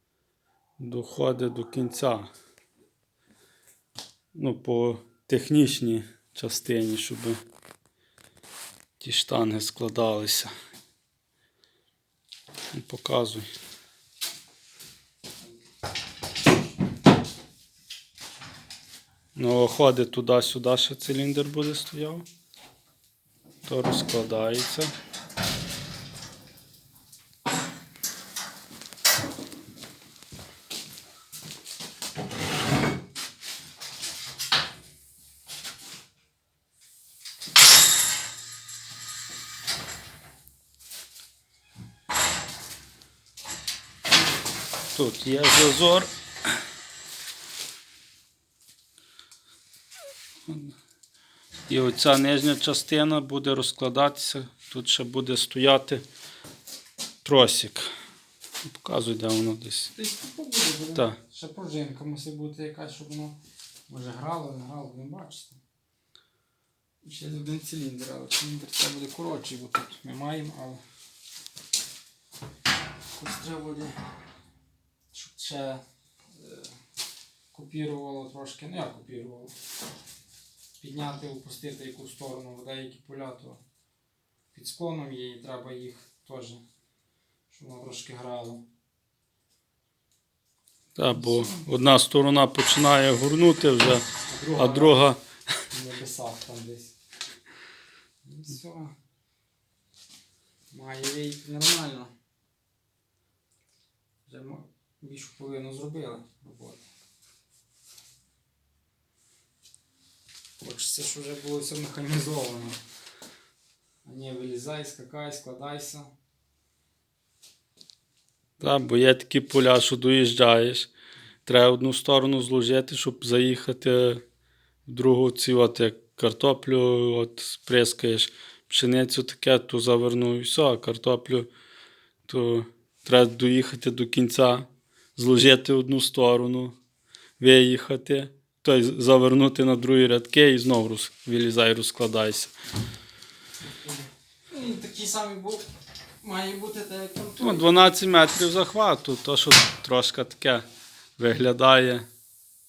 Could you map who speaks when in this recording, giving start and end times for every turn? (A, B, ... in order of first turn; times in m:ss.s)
0:00.8-0:02.3 A
0:04.3-0:07.4 A
0:09.0-0:10.5 A
0:12.7-0:13.5 A
0:19.4-0:22.2 A
0:23.6-0:24.9 A
0:44.9-0:46.1 A
0:50.5-0:50.7 A
0:51.7-0:56.0 A
0:57.2-0:57.9 A
0:58.6-0:59.9 A
0:59.9-1:05.6 B
1:07.0-1:10.8 B
1:13.1-1:14.0 B
1:15.1-1:16.8 B
1:17.5-1:19.5 B
1:20.8-1:23.6 B
1:24.5-1:26.6 B
1:27.5-1:28.6 B
1:31.0-1:34.0 A
1:31.1-1:31.7 B
1:34.2-1:35.0 B
1:34.6-1:35.2 A
1:35.7-1:36.9 B
1:38.2-1:38.9 B
1:40.7-1:42.1 B
1:44.2-1:46.8 B
1:50.6-1:52.8 B
1:54.0-1:56.1 B
1:58.6-2:00.9 A
2:01.4-2:04.2 A
2:04.8-2:11.5 A
2:12.3-2:16.7 A
2:17.4-2:22.5 A
2:24.5-2:25.6 B
2:26.2-2:27.8 B
2:27.4-2:30.6 A
2:31.2-2:32.0 A